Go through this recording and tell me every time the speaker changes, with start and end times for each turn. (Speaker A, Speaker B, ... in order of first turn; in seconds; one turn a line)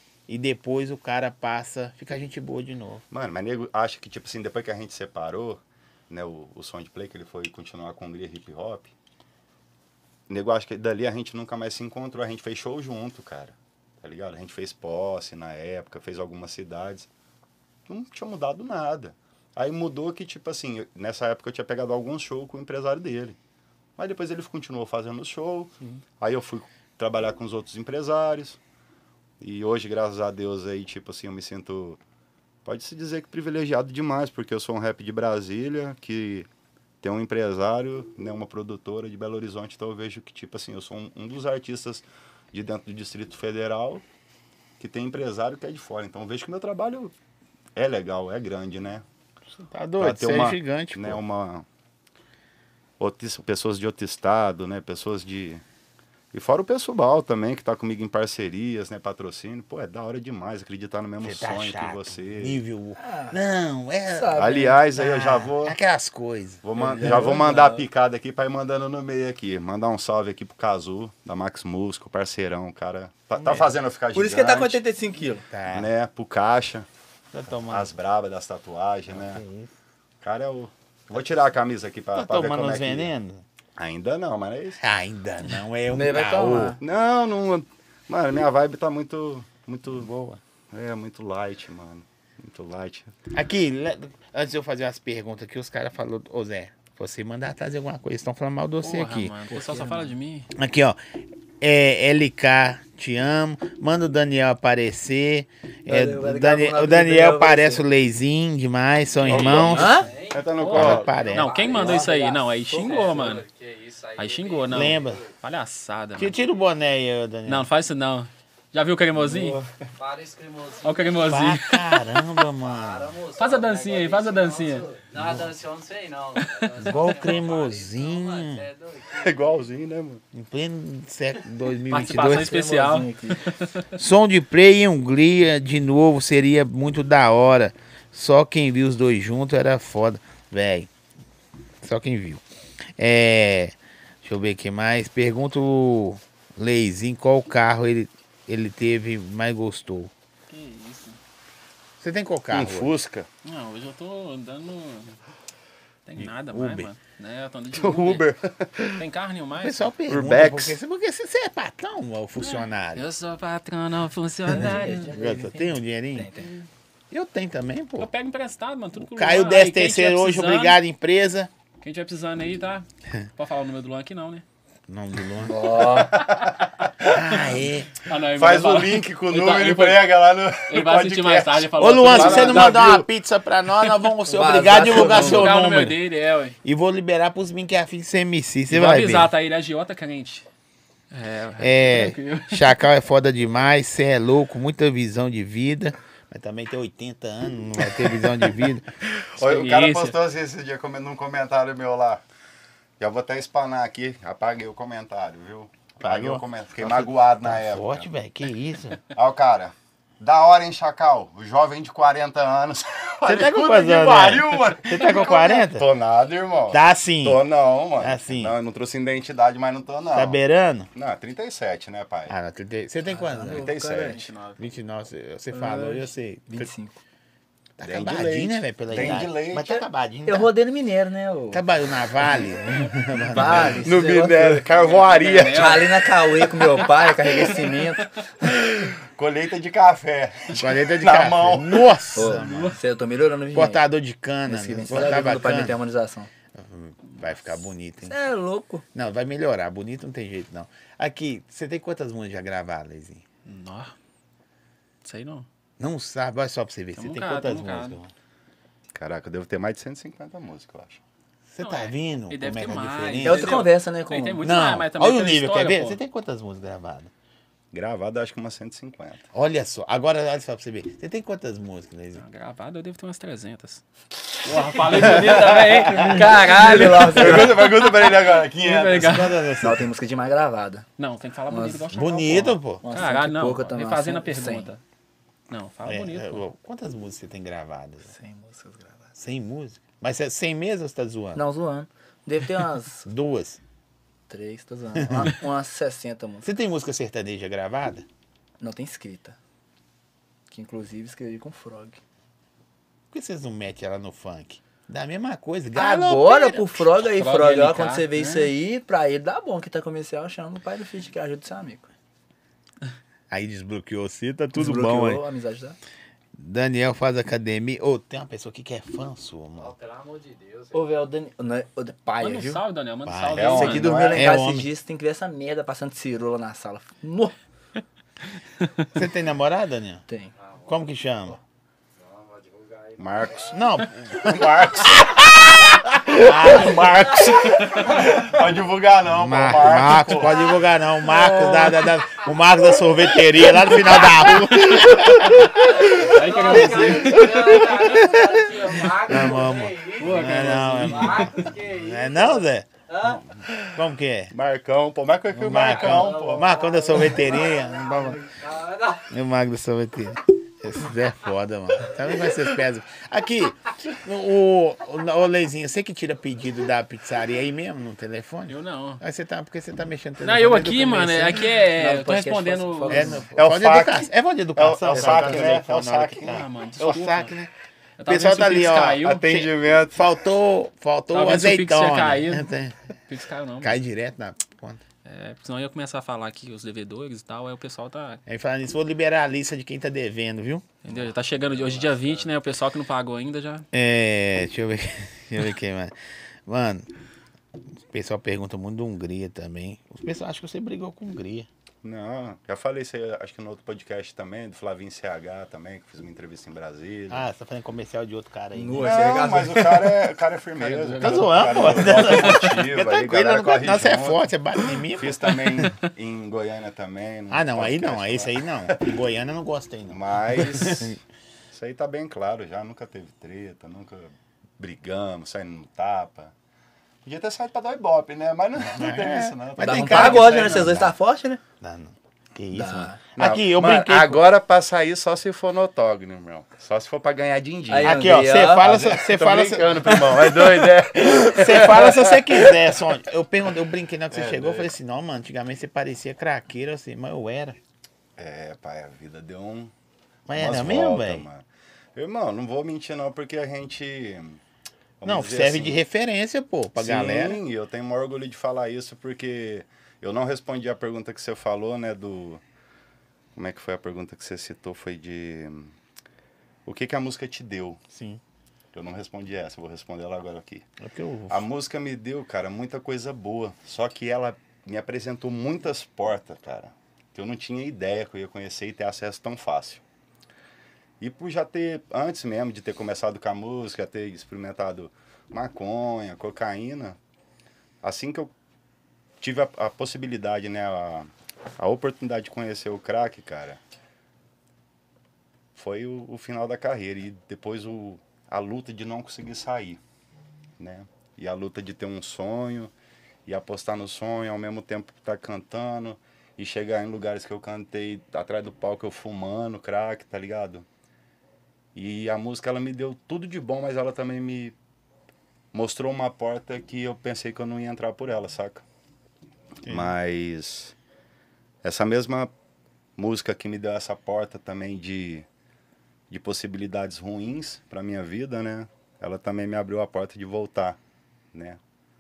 Speaker A: 0.3-3.0
Speaker B: 3.1-8.9
Speaker B: 10.3-17.1
Speaker B: 17.9-23.4
Speaker B: 24.0-28.6
Speaker B: 29.4-32.0
Speaker B: 32.6-36.5
Speaker B: 37.0-44.0
Speaker B: 44.8-47.1
Speaker B: 47.8-49.0
Speaker A: 49.5-51.2
Speaker B: 50.0-51.7
Speaker B: 53.0-55.6
Speaker B: 56.3-62.6
Speaker A: 61.2-66.6
Speaker C: 63.0-63.4
Speaker C: 64.1-64.8
Speaker B: 64.3-65.8
Speaker B: 66.6-74.8
Speaker C: 66.8-67.8
Speaker A: 73.4-73.7
Speaker C: 74.1-75.4
Speaker A: 75.5-75.9
Speaker B: 75.7-76.9
Speaker A: 77.3-77.9
Speaker B: 77.6-79.4
Speaker A: 79.1-79.7
Speaker B: 80.2-83.1
Speaker A: 82.1-83.4
Speaker B: 83.8-84.8
Speaker A: 84.8-86.8
Speaker C: 85.9-86.8
Speaker B: 86.6-90.1
Speaker A: 89.9-90.4
Speaker B: 90.7-93.1
Speaker A: 93.3-99.3
Speaker D: 98.8-100.5
Speaker C: 99.5-100.1
Speaker A: 100.5-101.0
Speaker A: 101.6-110.0
Speaker C: 105.9-107.8
Speaker B: 109.2-111.2
Speaker D: 109.2-109.9
Speaker E: 109.7-115.3
Speaker C: 109.7-110.1
Speaker D: 110.6-113.5
Speaker A: 110.7-111.6
Speaker C: 111.7-113.2
Speaker D: 114.2-116.3
Speaker A: 114.7-115.2
Speaker A: 116.2-117.7
Speaker D: 117.5-119.6
Speaker B: 119.2-119.9
Speaker E: 120.0-121.3
Speaker D: 120.8-122.2
Speaker A: 121.3-123.2
Speaker E: 122.6-129.6
Speaker D: 123.4-125.0
Speaker A: 125.2-125.5
Speaker A: 126.8-128.7
Speaker B: 129.1-130.2
Speaker A: 130.3-132.6
Speaker D: 131.9-133.9
Speaker C: 132.0-133.4
Speaker A: 134.0-140.9
Speaker A: 141.8-142.4
Speaker A: 143.0-150.1
Speaker D: 150.5-151.2
Speaker A: 152.0-152.9
Speaker B: 152.5-153.3
Speaker D: 153.4-155.2
Speaker D: 156.1-158.2
Speaker A: 156.2-156.9
Speaker B: 157.7-159.0
Speaker D: 159.0-159.9
Speaker A: 159.6-163.0
Speaker B: 160.1-160.8
Speaker D: 162.4-165.1
Speaker C: 164.5-166.5
Speaker A: 164.5-166.3
Speaker D: 166.4-166.7
Speaker A: 167.1-168.1
Speaker D: 168.0-170.8
Speaker A: 169.0-171.5
Speaker D: 171.8-174.4
Speaker A: 174.9-175.8
Speaker C: 175.4-176.2
Speaker B: 175.7-177.1
Speaker D: 176.1-176.5
Speaker A: 177.0-177.9
Speaker D: 177.1-177.4
Speaker D: 178.0-183.0
Speaker B: 178.3-183.1
Speaker A: 181.8-186.0
Speaker C: 184.3-185.5
Speaker D: 184.7-186.6
Speaker A: 186.6-189.3
Speaker D: 188.7-190.4
Speaker D: 191.1-192.7
Speaker A: 191.6-198.9
Speaker D: 199.2-200.2
Speaker B: 199.4-202.2
Speaker B: 203.0-208.1
Speaker A: 206.0-209.0
Speaker B: 209.1-220.4
Speaker A: 213.2-215.9
Speaker A: 216.7-217.4
Speaker A: 218.0-218.6
Speaker A: 220.1-220.9
Speaker B: 220.9-222.3
Speaker A: 222.3-223.8
Speaker C: 223.1-224.4
Speaker B: 223.5-224.3
Speaker A: 224.6-226.7
Speaker C: 225.5-227.0
Speaker A: 227.8-230.5
Speaker B: 227.8-229.8
Speaker C: 230.3-231.6
Speaker A: 231.5-233.8
Speaker C: 233.3-234.7
Speaker B: 233.7-235.9
Speaker D: 234.7-235.9
Speaker C: 235.5-238.1
Speaker B: 238.4-242.0
Speaker A: 240.5-242.8
Speaker C: 242.2-243.8
Speaker D: 242.4-242.8
Speaker A: 243.5-245.8
Speaker C: 244.5-246.3
Speaker A: 246.6-248.2
Speaker C: 248.1-248.8
Speaker A: 248.9-253.2
Speaker D: 253.4-253.9
Speaker D: 255.0-255.5
Speaker A: 255.8-258.1
Speaker D: 256.9-258.0
Speaker B: 258.9-261.0
Speaker A: 261.5-263.6
Speaker D: 261.6-266.0
Speaker C: 263.2-264.4
Speaker A: 264.4-267.1
Speaker B: 267.7-269.2
Speaker A: 269.3-272.2
Speaker D: 272.2-273.8
Speaker D: 274.4-279.5
Speaker B: 274.9-279.2
Speaker C: 275.9-277.6
Speaker A: 278.9-279.9
Speaker C: 279.6-280.9
Speaker D: 281.0-284.8
Speaker C: 281.5-281.9
Speaker A: 281.9-282.8
Speaker C: 282.8-284.7
Speaker D: 285.5-286.4
Speaker A: 285.9-288.1
Speaker C: 288.1-289.1
Speaker A: 289.2-291.4
Speaker C: 291.4-293.1
Speaker A: 293.1-293.6
Speaker C: 294.3-296.5
Speaker A: 295.0-295.4
Speaker A: 296.4-298.1
Speaker C: 298.6-299.4
Speaker C: 300.5-302.0
Speaker A: 303.1-306.9
Speaker C: 305.8-311.9
Speaker D: 307.1-308.5
Speaker A: 313.3-315.2
Speaker C: 314.5-315.8
Speaker A: 316.4-319.7
Speaker E: 319.6-320.9
Speaker C: 320.7-322.6
Speaker D: 322.2-324.1
Speaker A: 323.1-324.7
Speaker B: 323.3-324.3
Speaker C: 323.5-327.4
Speaker A: 328.9-330.0
Speaker A: 330.7-331.4
Speaker E: 332.0-333.3
Speaker B: 333.0-340.6
Speaker A: 333.5-335.1
Speaker A: 336.1-337.5
Speaker A: 339.1-352.7
Speaker D: 344.8-348.0
Speaker E: 345.7-353.2
Speaker D: 350.0-351.4
Speaker B: 353.0-353.8
Speaker A: 353.7-354.3
Speaker B: 354.3-357.1
Speaker A: 355.3-358.2
Speaker E: 355.5-359.1
Speaker A: 359.1-371.5
Speaker D: 368.5-369.0
Speaker D: 370.2-373.2
Speaker C: 371.7-373.3
Speaker A: 372.9-377.5
Speaker B: 373.4-376.4
Speaker C: 374.9-375.6
Speaker D: 376.2-377.3
Speaker D: 378.0-379.3
Speaker A: 378.1-382.8
Speaker B: 379.0-380.1
Speaker D: 381.1-382.5
Speaker D: 383.1-383.8
Speaker A: 383.6-384.8
Speaker D: 385.1-388.2
Speaker A: 388.3-390.7
Speaker D: 390.8-393.7
Speaker B: 390.9-392.3
Speaker A: 393.7-395.9
Speaker A: 396.5-396.9
Speaker A: 397.9-401.5
Speaker B: 401.8-407.2
Speaker A: 407.1-409.1
Speaker C: 408.5-410.0
Speaker B: 408.8-414.2
Speaker D: 410.6-412.5
Speaker A: 411.0-415.4
Speaker B: 414.9-418.9
Speaker D: 415.6-415.9
Speaker A: 417.3-421.0
Speaker B: 419.9-421.0
Speaker B: 421.5-426.3
Speaker B: 427.1-430.8
Speaker A: 428.6-430.9
Speaker C: 429.6-431.4
Speaker A: 431.6-434.3
Speaker C: 432.5-433.0
Speaker B: 433.2-442.8
Speaker C: 437.7-438.7
Speaker A: 437.8-447.6
Speaker B: 444.1-444.7
Speaker B: 448.2-449.7
Speaker A: 450.3-451.3
Speaker B: 450.3-454.4
Speaker B: 455.0-455.8
Speaker A: 455.0-457.4
Speaker B: 456.8-462.4
Speaker B: 463.4-465.7
Speaker B: 466.7-467.8
Speaker A: 467.9-468.2
Speaker B: 468.7-470.6
Speaker A: 470.8-471.4
Speaker B: 471.3-479.8
Speaker B: 481.0-487.0
Speaker B: 487.8-488.3
Speaker B: 489.2-493.6
Speaker B: 495.5-499.8
Speaker B: 500.6-502.7
Speaker B: 503.3-510.7
Speaker B: 511.8-514.5
Speaker B: 515.5-518.6
Speaker A: 519.6-520.0
Speaker B: 519.7-520.7
Speaker B: 521.6-522.3
Speaker B: 523.0-525.3
Speaker B: 526.1-530.8
Speaker B: 531.3-531.6